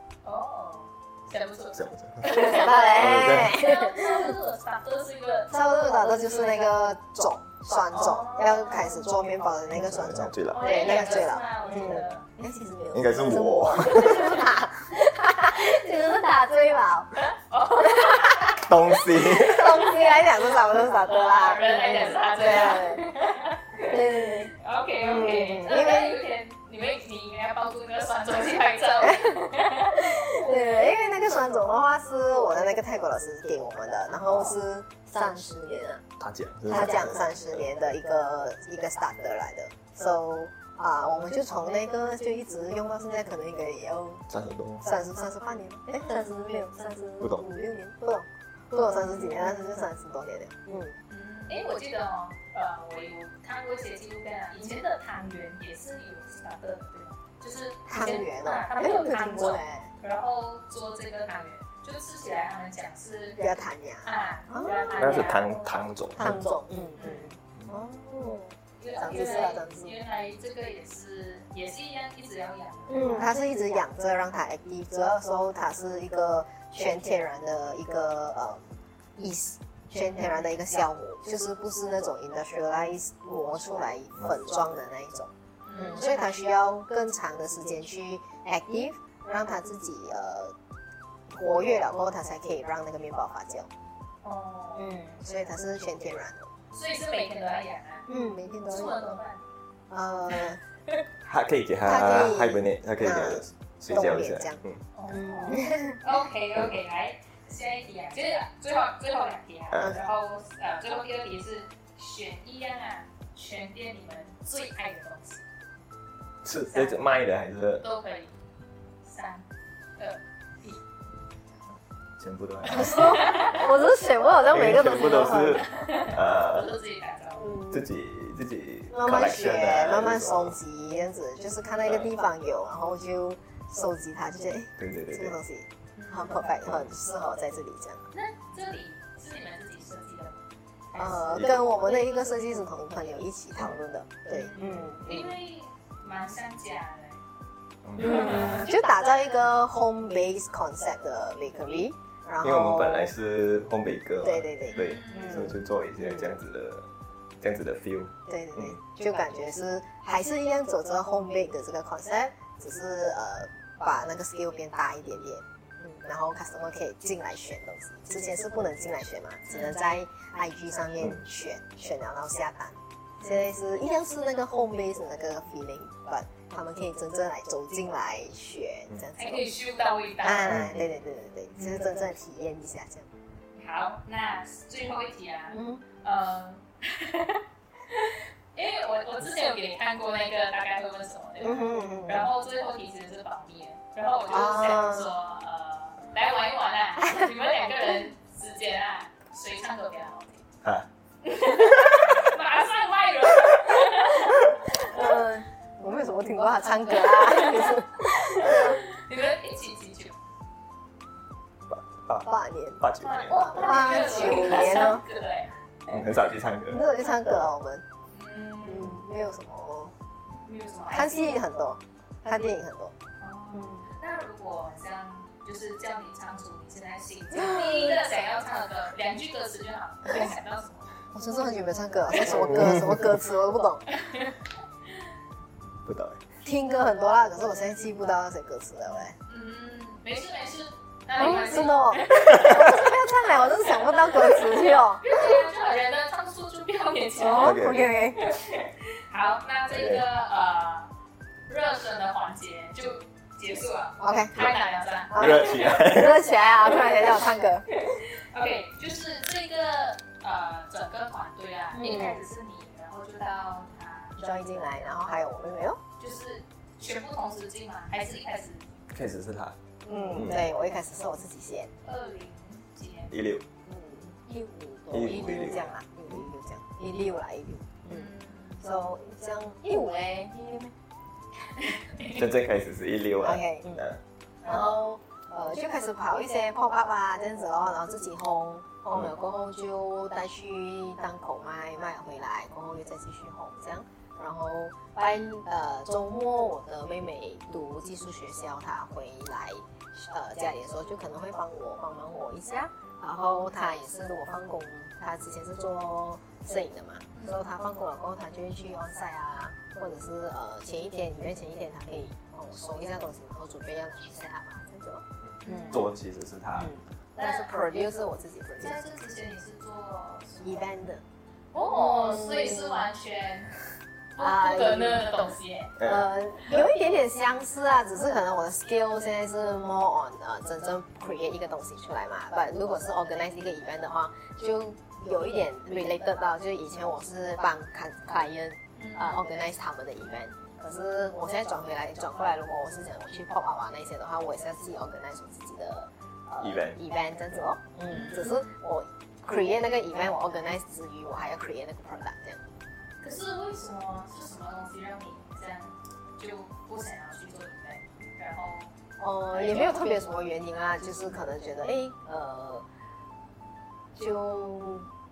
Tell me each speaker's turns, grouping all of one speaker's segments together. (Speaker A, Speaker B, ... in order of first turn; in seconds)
Speaker A: 0.2-6.6, 7.9-9.1, 10.5-12.2, 17.2-18.7, 21.0-30.4, 51.1-63.4, 64.0-65.8, 67.0-67.3, 68.8-73.3, 85.6-86.0, 94.2-94.9, 96.7-98.1, 98.7-99.4, 104.9-115.4, 116.7-117.1, 117.8-118.3, 119.0-119.5, 120.0-120.8, 122.8-123.6, 125.5-127.6, 135.9-136.4, 138.1-140.4, 140.9-141.3, 144.3-147.2, 148.0-148.7, 154.7-155.5, 169.5-169.8, 179.2-180.6, 183.6-200.4, 201.2-205.1, 207.0-210.2, 213.0-215.5, 218.1-219.0, 220.4-221.3, 223.2-230.9, 233.9-234.4, 239.2-242.9, 244.2-247.6, 248.1-250.9, 251.5-255.7, 257.7-264.2, 266.0-268.7, 271.8-273.1, 277.9-278.6, 281.6-282.2, 307.1-307.5, 315.4-315.8, 317.2-317.5, 318.6-320.7, 321.5-323.5, 324.2-325.8, 338.8-339.2, 347.9-348.5, 353.0-358.7, 359.3-359.8
Speaker B: 1.7-3.6, 9.7-10.8, 12.9-14.4, 18.6-19.8, 36.2-37.4, 44.3-44.8, 65.0-66.4, 101.2-104.8, 109.7-110.0, 116.4-117.8, 122.2-123.3, 124.5-126.7, 127.7-130.5, 134.8-135.4, 136.6-136.9, 141.3-141.6, 147.8-148.5, 152.4-156.9, 157.4-158.8, 180.5-180.8, 211.7-213.7, 215.9-216.8, 232.3-232.9, 235.8-236.2, 247.4-247.9, 249.7-250.0, 255.1-256.2, 268.9-269.6, 270.1-270.4, 273.1-273.4, 274.9-276.2, 282.1-284.0, 315.2-316.7, 325.8-326.1, 346.4-346.8
Speaker C: 2.2-4.3, 5.5-17.1, 17.8-18.4, 19.1-23.1, 23.8-26.2, 29.0-29.4, 30.0-36.0, 36.7-44.2, 44.8-51.0, 57.9-59.9, 63.4-65.3, 66.2-69.9, 72.9-90.5, 91.3-93.7, 94.8-96.5, 98.1-99.1, 99.9-100.6, 101.8-106.0, 122.7-125.7, 127.4-127.8, 128.9-138.1, 140.9-145.3, 148.0-153.1, 154.2-156.4, 158.3-179.5, 180.2-183.1, 185.5-185.8, 191.4-192.3, 194.3-195.1, 204.8-208.8, 212.2-215.0, 216.7-217.8, 218.6-219.9, 220.9-222.9, 223.5-223.9, 227.3-228.0, 231.1-233.8, 236.4-239.1, 241.2-245.4, 247.2-248.2, 254.0-254.5, 255.1-257.6, 261.7-262.2, 264.2-265.8, 269.8-271.7, 273.6-278.1, 278.6-280.7, 283.2-283.8, 284.4-315.8, 316.5-318.8, 320.4-321.0, 321.6-322.9, 324.2-325.2, 325.8-352.4, 359.0-362.6, 363.9-364.9